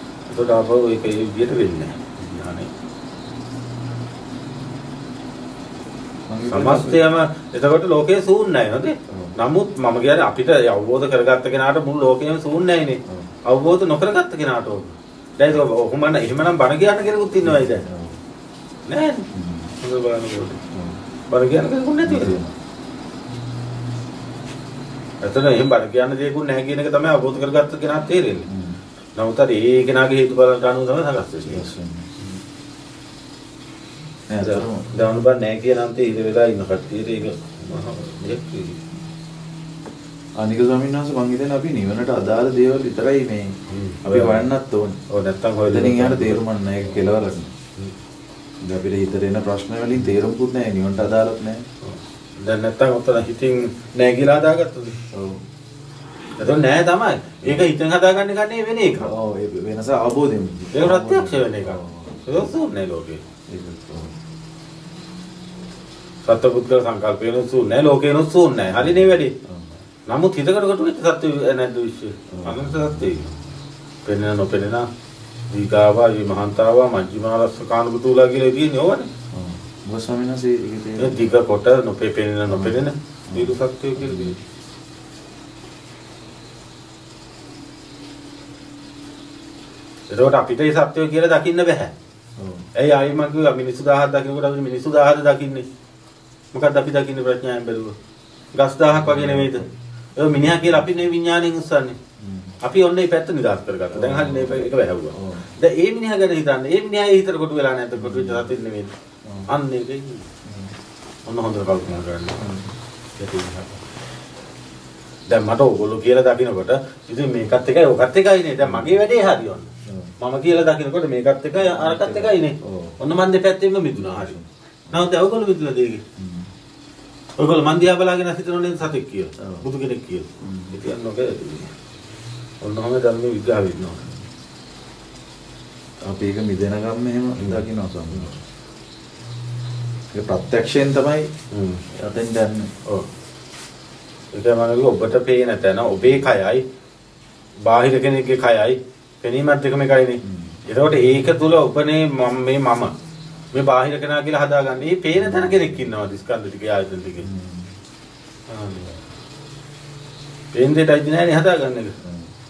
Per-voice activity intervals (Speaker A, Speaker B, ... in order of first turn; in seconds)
Speaker A: 0.3-2.7, 6.5-17.9, 18.9-19.3, 19.8-20.6, 21.3-22.4, 25.2-28.5, 29.2-31.7, 34.4-38.8, 43.7-44.5, 45.1-47.0, 51.8-55.0, 56.4-59.1, 60.7-63.2, 66.2-69.3, 70.1-73.3, 74.0-74.9, 75.5-79.1, 81.0-84.4, 90.1-91.9, 92.8-95.7, 96.5-98.0, 98.5-99.6, 100.2-102.0, 102.6-108.9, 109.5-110.3, 111.3-112.5, 113.2-113.8, 115.3-124.4, 124.9-126.0, 127.4-131.7, 132.6-134.1, 137.4-138.3, 141.5-141.8, 144.3-146.6, 147.6-152.9, 153.5-157.3, 158.5-159.0, 160.5-161.9
Speaker B: 6.3-7.0, 9.1-9.3, 13.1-13.3, 17.4-18.2, 19.3-19.7, 20.7-21.0, 22.0-22.5, 28.5-28.8, 31.3-32.4, 34.3-34.9, 40.4-45.0, 45.7-47.5, 48.6-51.7, 55.1-55.4, 59.0-62.5, 63.5-64.1, 68.8-69.8, 72.3-73.4, 79.3-81.2, 82.5-84.4, 92.4-92.7, 98.9-99.7, 100.4-100.9, 102.2-102.6, 103.9-105.5, 108.0-108.5, 109.2-109.5, 110.4-110.7, 112.4-112.8, 118.6-119.0, 119.9-120.1, 121.6-123.0, 124.0-125.1, 126.2-126.5, 129.4-129.7, 130.4-130.8, 136.0-138.3, 140.1-141.3, 141.9-142.7, 150.2-150.6, 155.2-155.9, 157.2-157.7, 162.0-162.3